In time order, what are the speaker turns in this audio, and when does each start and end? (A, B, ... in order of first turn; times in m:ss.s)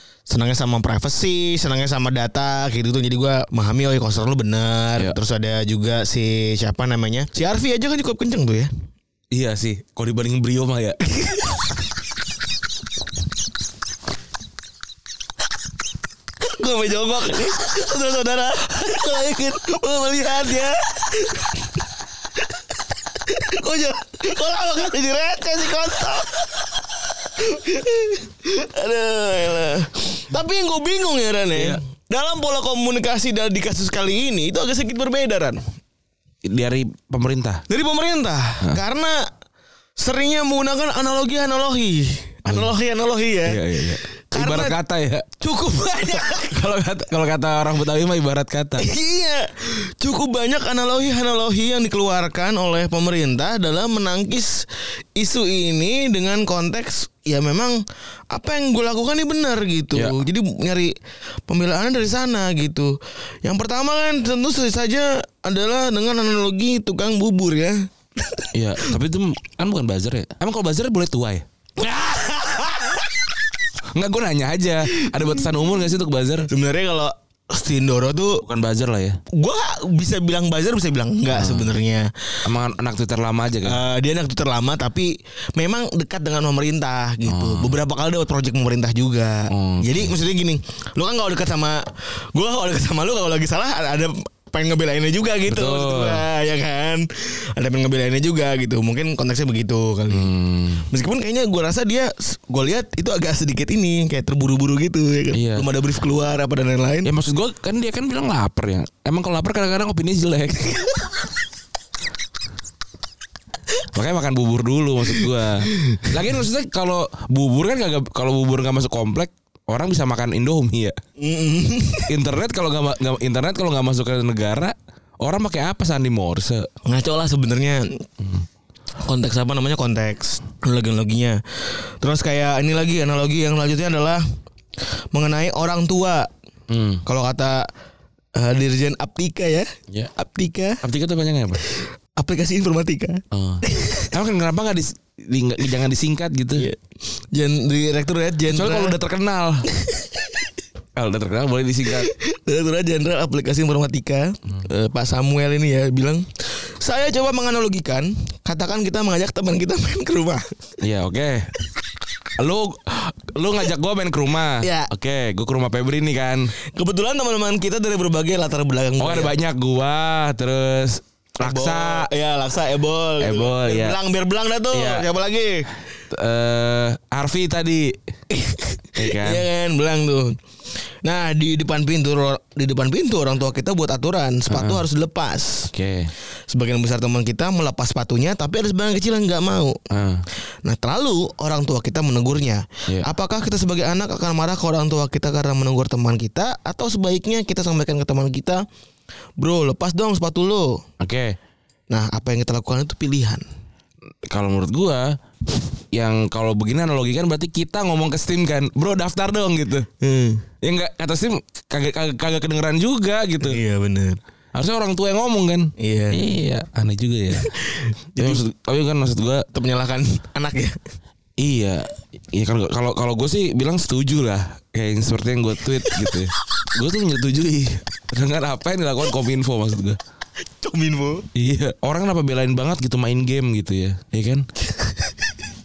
0:00.3-0:08.7 A
0:09.3-0:11.1 B
0:16.4-0:21.7 A
0:22.4-0:35.6 A
0:31.5-0:31.8 B
0:36.4-0:37.6 B
0:37.7-0:39.3 A
0:40.0-0:44.8 A
0:42.5-0:42.8 B
0:43.4-0:45.3 B
0:45.4-0:46.7 A
0:46.2-0:48.9 B
0:48.8-1:01.0 A
1:01.5-1:08.9 A
1:08.5-1:11.5 B
1:11.8-1:13.1 A
1:14.0-1:16.5 B
1:16.5-1:18.4 A
1:18.4-1:19.2 B
1:19.3-1:22.1 A
1:21.3-1:21.7 B
1:22.4-1:23.8 B
1:23.6-1:40.3 A
1:27.3-1:27.8 B
1:29.5-1:30.2 B
1:35.5-1:36.2 B
1:40.1-1:40.9 B
1:40.9-1:47.1 A
1:45.3-1:45.7 B
1:47.0-1:51.0 B
1:53.9-2:01.0 B
1:55.7-1:56.1 A
2:01.2-2:02.1 A
2:02.1-2:06.7 B
2:06.8-2:08.1 A
2:09.0-2:14.2 A
2:15.1-2:16.3 A
2:16.7-2:17.0 B
2:17.0-2:17.7 A
2:18.4-2:20.8 A
2:20.8-2:21.6 B
2:22.2-2:24.1 A
2:23.3-2:26.7 B
2:26.6-2:29.0 A
2:28.5-2:29.7 B
2:29.8-2:30.1 A
2:31.0-2:32.1 B
2:31.9-2:40.4 A
2:40.8-2:41.5 B
2:42.4-2:46.5 B
2:44.6-2:44.9 A
2:46.7-2:49.4 A
2:49.0-2:52.1 B
2:51.4-2:55.7 A
2:53.2-2:54.0 B
2:54.7-2:55.1 B
2:56.1-2:58.0 B
2:58.3-3:05.7 A
2:59.0-2:59.5 B
3:04.5-3:04.8 B
3:05.7-3:06.1 B
3:06.5-3:09.8 A
3:09.9-3:10.2 B
3:10.6-3:18.6 A
3:19.4-3:20.8 A
3:21.0-3:21.4 B
3:21.9-3:23.4 A
3:24.3-3:25.2 B
3:25.9-3:29.9 B
3:30.0-3:30.5 A
3:30.6-3:33.6 B
3:33.4-3:34.2 A
3:34.6-3:37.5 B
3:35.8-3:36.2 A
3:37.4-3:38.4 A
3:38.2-3:39.5 B
3:39.5-3:40.8 A
3:41.4-3:50.0 B
3:50.6-3:51.3 A
3:51.4-3:54.4 B
3:54.8-3:55.1 A